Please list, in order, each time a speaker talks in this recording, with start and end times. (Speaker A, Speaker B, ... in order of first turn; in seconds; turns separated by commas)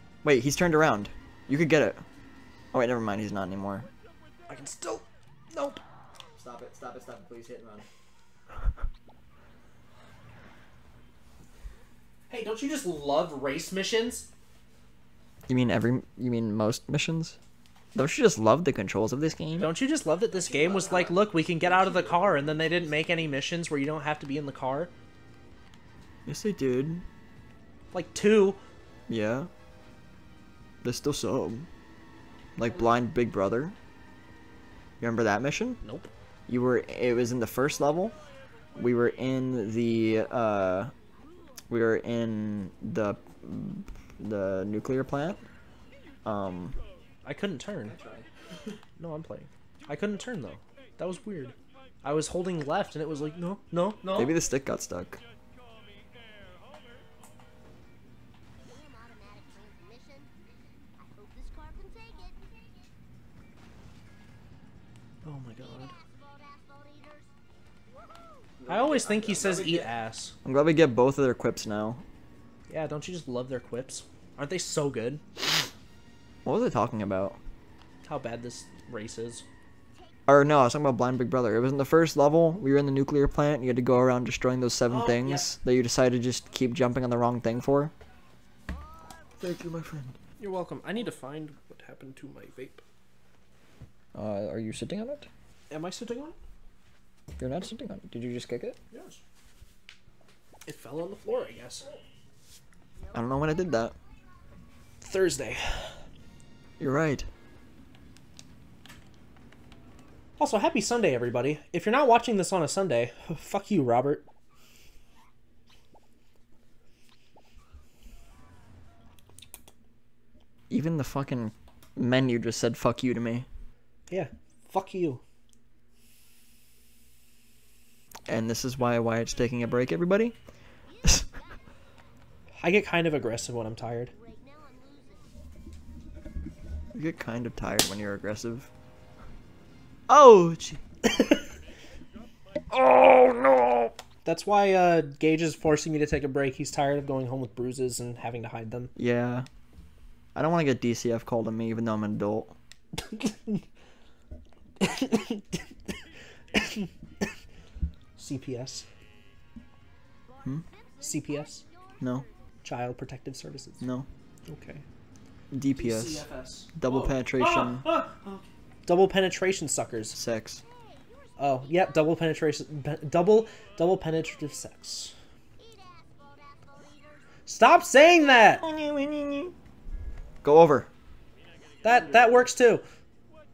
Speaker A: 0.2-2.0, Speaker A: 2.7-3.9, Speaker B: 4.5-5.8, Speaker A: 6.4-7.9, Speaker B: 12.3-14.3, Speaker A: 15.5-17.4, Speaker A: 17.9-19.7, Speaker B: 19.6-24.9, Speaker A: 26.3-27.0, Speaker B: 27.9-28.6, Speaker A: 29.1-29.5, Speaker A: 30.8-31.7, Speaker A: 32.6-33.8, Speaker A: 35.0-35.8, Speaker B: 35.8-36.1, Speaker A: 36.5-38.2, Speaker A: 38.8-40.9, Speaker A: 41.7-45.4, Speaker A: 46.2-46.8, Speaker B: 47.2-48.0, Speaker A: 47.9-48.3, Speaker B: 49.0-54.3, Speaker A: 54.1-55.2, Speaker C: 59.1-60.3, Speaker C: 61.2-62.3, Speaker B: 65.2-65.9, Speaker C: 66.6-67.2, Speaker A: 68.6-69.9, Speaker B: 68.7-70.3, Speaker A: 70.5-72.0, Speaker B: 72.7-75.7, Speaker A: 76.5-77.4, Speaker B: 78.0-79.5, Speaker A: 80.3-87.9, Speaker B: 84.9-85.5, Speaker A: 89.4-90.2, Speaker B: 90.4-92.8, Speaker A: 94.2-95.3, Speaker B: 95.7-96.4, Speaker A: 97.4-98.8, Speaker B: 98.9-99.2, Speaker B: 100.7-102.0, Speaker A: 103.1-104.0, Speaker B: 105.0-106.0, Speaker A: 106.8-107.3, Speaker B: 110.4-114.3, Speaker A: 120.7-123.5, Speaker B: 124.1-125.2, Speaker A: 128.3-130.4, Speaker B: 132.6-134.1, Speaker A: 136.9-138.7, Speaker A: 140.1-140.8, Speaker B: 141.1-141.5, Speaker A: 142.7-143.9, Speaker B: 144.2-148.9, Speaker A: 149.0-149.5, Speaker A: 150.3-152.6, Speaker B: 153.0-153.6, Speaker B: 154.8-155.7, Speaker B: 156.5-157.3, Speaker B: 158.2-158.9, Speaker B: 161.0-161.6, Speaker A: 162.0-162.3, Speaker B: 162.6-163.8, Speaker A: 163.8-164.1, Speaker B: 164.5-164.8, Speaker A: 165.5-166.2, Speaker B: 165.8-170.2, Speaker A: 166.8-167.9, Speaker A: 170.1-170.6, Speaker B: 171.4-175.1, Speaker B: 177.5-178.6, Speaker A: 178.4-179.5, Speaker A: 180.4-180.9, Speaker B: 181.8-182.8